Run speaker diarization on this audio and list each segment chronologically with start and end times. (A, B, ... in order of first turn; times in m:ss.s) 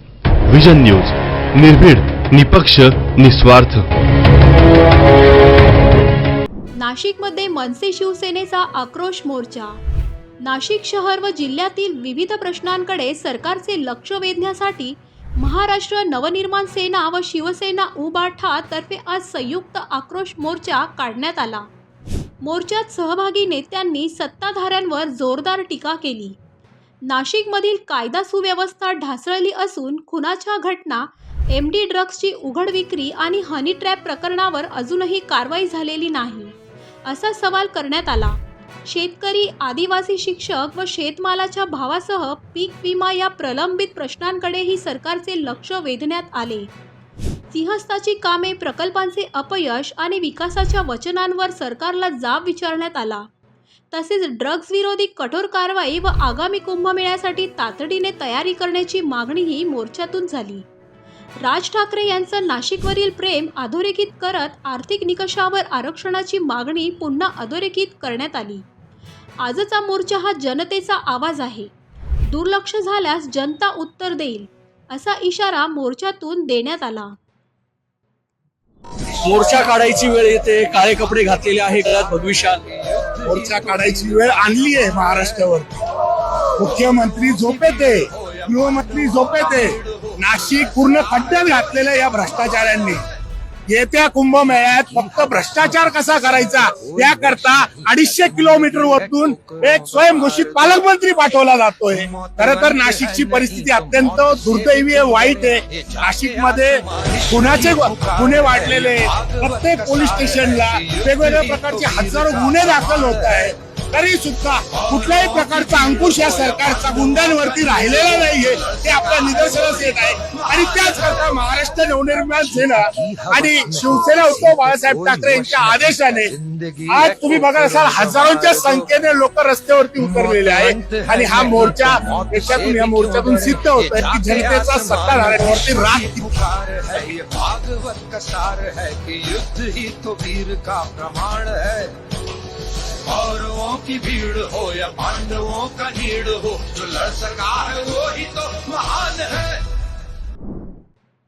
0:00.5-0:03.9 A
0:06.8-0:09.8 B
0:10.4-0:21.6 B
0:22.4-0:26.4 B
0:27.0-0:36.5 B
0:37.0-0:46.7 B
0:47.5-0:53.2 B
0:53.9-1:00.6 B
1:01.4-1:08.6 B
1:09.4-1:11.7 B
1:12.3-1:17.1 B
1:19.2-1:22.6 C
1:23.0-1:25.2 D
1:23.2-1:25.8 E
1:26.6-1:33.0 E
1:27.3-1:30.2 D
1:30.8-1:31.6 D
1:33.7-2:06.4 E
1:35.0-1:35.6 D
1:36.8-1:40.8 D
1:42.1-1:53.5 D
1:54.7-2:01.4 D
2:03.1-2:08.8 D
2:06.9-2:16.4 E
2:10.2-2:21.9 D
2:23.1-2:29.6 D